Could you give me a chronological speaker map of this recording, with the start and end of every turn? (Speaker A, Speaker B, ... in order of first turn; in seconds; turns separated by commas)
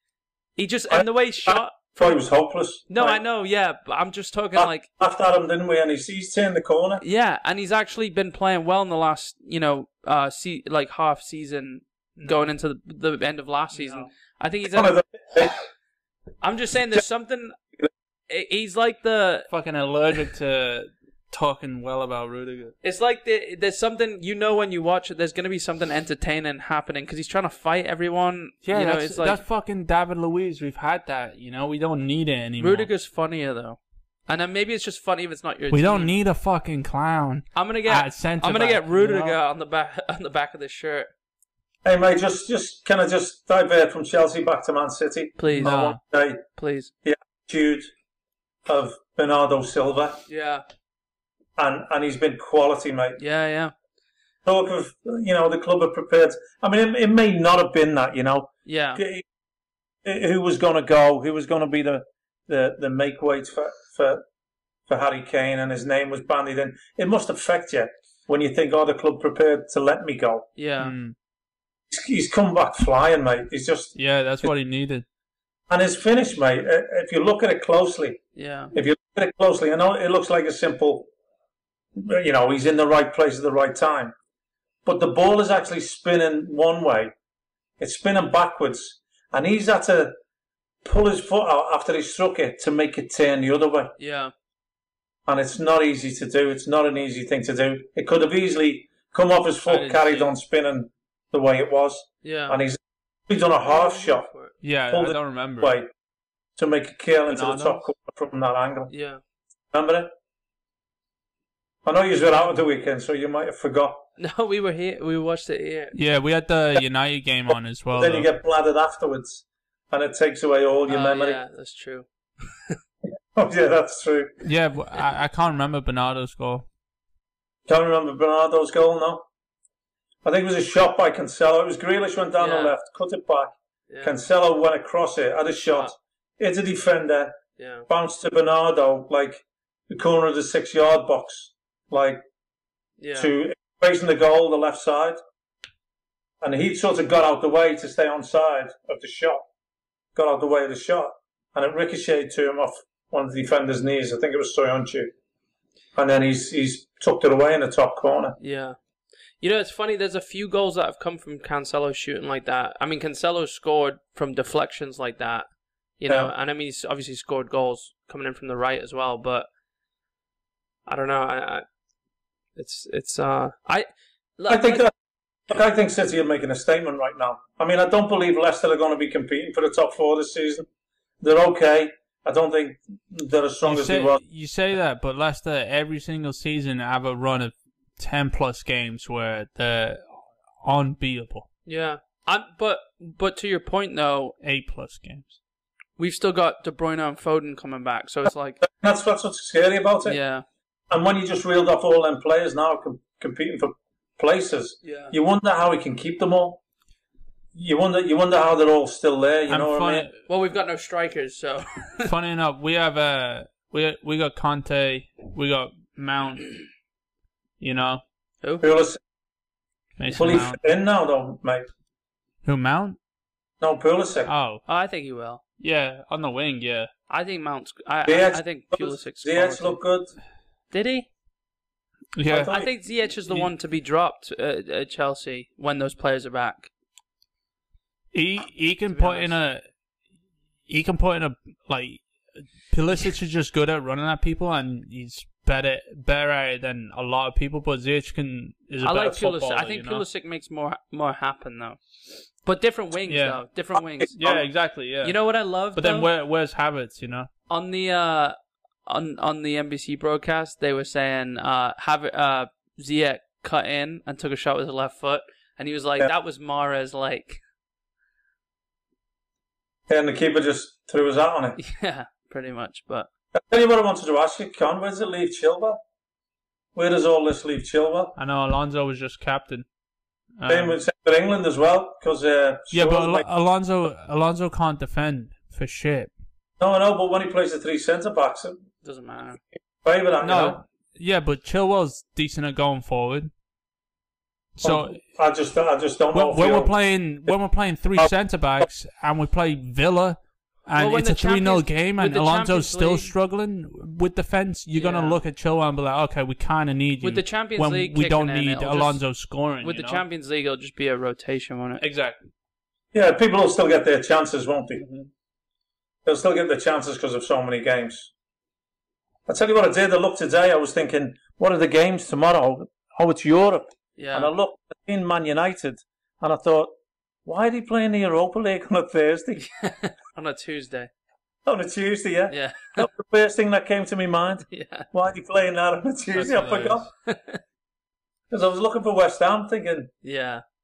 Speaker A: 0.6-2.2, Speaker B: 0.9-3.2, Speaker A: 2.9-4.9, Speaker B: 4.5-7.0, Speaker A: 7.0-15.0, Speaker C: 13.8-14.1, Speaker B: 14.7-15.5, Speaker A: 16.4-17.6, Speaker A: 18.3-19.5, Speaker C: 19.5-22.7, Speaker A: 22.8-29.4, Speaker C: 28.6-32.9, Speaker A: 32.6-36.1, Speaker C: 35.7-39.4, Speaker A: 37.5-41.1, Speaker B: 41.9-46.4, Speaker A: 45.4-45.8, Speaker C: 45.6-46.0, Speaker A: 46.6-46.9, Speaker B: 47.0-47.9, Speaker B: 48.7-50.2, Speaker A: 50.3-50.6, Speaker B: 51.6-53.2, Speaker A: 53.2-53.7, Speaker B: 54.5-59.2, Speaker A: 58.7-59.0, Speaker B: 60.0-64.2, Speaker B: 64.9-70.5, Speaker A: 70.6-70.9, Speaker C: 70.8-71.2, Speaker B: 71.9-74.5, Speaker C: 74.0-75.0, Speaker B: 75.7-78.2, Speaker A: 78.3-78.7, Speaker B: 78.7-81.1, Speaker B: 82.0-84.1, Speaker B: 84.8-87.1, Speaker B: 87.8-90.2, Speaker B: 90.8-93.9, Speaker A: 94.0-94.3, Speaker B: 95.3-104.3, Speaker C: 99.7-100.3, Speaker A: 102.2-102.6, Speaker A: 103.7-104.5, Speaker C: 104.6-105.8, Speaker B: 104.9-105.9, Speaker B: 106.6-108.9, Speaker C: 107.3-107.8, Speaker A: 108.9-109.2, Speaker B: 109.7-110.1, Speaker B: 111.8-114.0, Speaker A: 114.2-116.0, Speaker C: 115.9-118.3, Speaker B: 118.0-121.4, Speaker A: 120.9-122.8, Speaker B: 123.3-124.4, Speaker C: 124.4-126.7, Speaker B: 127.7-129.3, Speaker B: 130.2-133.5, Speaker A: 132.4-132.8, Speaker A: 133.9-134.2, Speaker B: 134.0-142.2, Speaker A: 137.6-137.9, Speaker A: 143.0-143.3, Speaker B: 143.2-145.2, Speaker B: 146.4-149.5, Speaker B: 150.2-155.1, Speaker B: 156.0-158.4, Speaker A: 158.4-158.8, Speaker A: 159.4-165.5, Speaker A: 166.0-169.5, Speaker A: 170.9-171.7, Speaker A: 172.6-173.9, Speaker A: 174.4-174.9, Speaker B: 174.5-174.9, Speaker B: 175.5-180.7, Speaker B: 181.2-184.2, Speaker C: 183.7-190.1, Speaker C: 190.6-191.5, Speaker A: 191.7-194.3, Speaker C: 194.4-195.4, Speaker A: 196.0-198.6, Speaker B: 198.6-200.2, Speaker A: 200.1-200.4, Speaker B: 200.9-206.6, Speaker A: 204.8-205.1, Speaker B: 207.6-210.1, Speaker C: 209.5-210.1, Speaker A: 210.3-212.1, Speaker C: 212.1-216.6, Speaker C: 217.6-218.0, Speaker B: 218.6-219.0, Speaker C: 220.0-220.6, Speaker B: 220.2-221.7, Speaker C: 222.4-223.0, Speaker B: 223.6-224.3, Speaker C: 224.3-224.6, Speaker A: 224.7-225.4, Speaker C: 225.6-226.9, Speaker A: 227.1-229.8, Speaker B: 228.1-230.1, Speaker A: 230.7-231.1, Speaker C: 232.2-232.5, Speaker B: 232.3-232.7, Speaker A: 232.4-236.7, Speaker C: 238.1-239.6, Speaker A: 238.9-239.3, Speaker C: 240.7-242.0, Speaker C: 242.7-250.0, Speaker A: 248.8-251.8, Speaker A: 252.4-254.2, Speaker C: 253.1-253.4, Speaker C: 254.1-255.2, Speaker A: 255.0-256.1, Speaker C: 255.7-257.3, Speaker A: 257.5-258.4, Speaker A: 258.9-267.4, Speaker B: 269.9-271.6, Speaker A: 271.6-273.1, Speaker B: 273.3-275.8, Speaker B: 276.8-278.1, Speaker C: 278.2-279.6, Speaker C: 280.4-280.8, Speaker B: 280.5-283.2, Speaker C: 282.7-286.1, Speaker B: 286.6-288.6, Speaker A: 288.8-289.4, Speaker B: 289.8-290.6, Speaker C: 290.2-293.3, Speaker C: 294.6-295.0, Speaker B: 294.6-296.7, Speaker C: 296.1-310.0, Speaker A: 300.8-303.1, Speaker A: 304.7-305.2, Speaker A: 307.0-309.0, Speaker A: 309.6-311.8, Speaker C: 311.8-312.2, Speaker B: 312.9-314.8, Speaker C: 314.8-315.1, Speaker B: 316.1-318.1, Speaker B: 319.3-326.7, Speaker A: 324.0-324.3, Speaker B: 327.3-329.5, Speaker A: 329.4-330.9, Speaker B: 331.5-336.9, Speaker A: 332.3-332.9, Speaker A: 334.5-334.9, Speaker C: 336.2-336.8, Speaker A: 337.1-337.4, Speaker B: 338.3-339.9, Speaker A: 340.0-340.4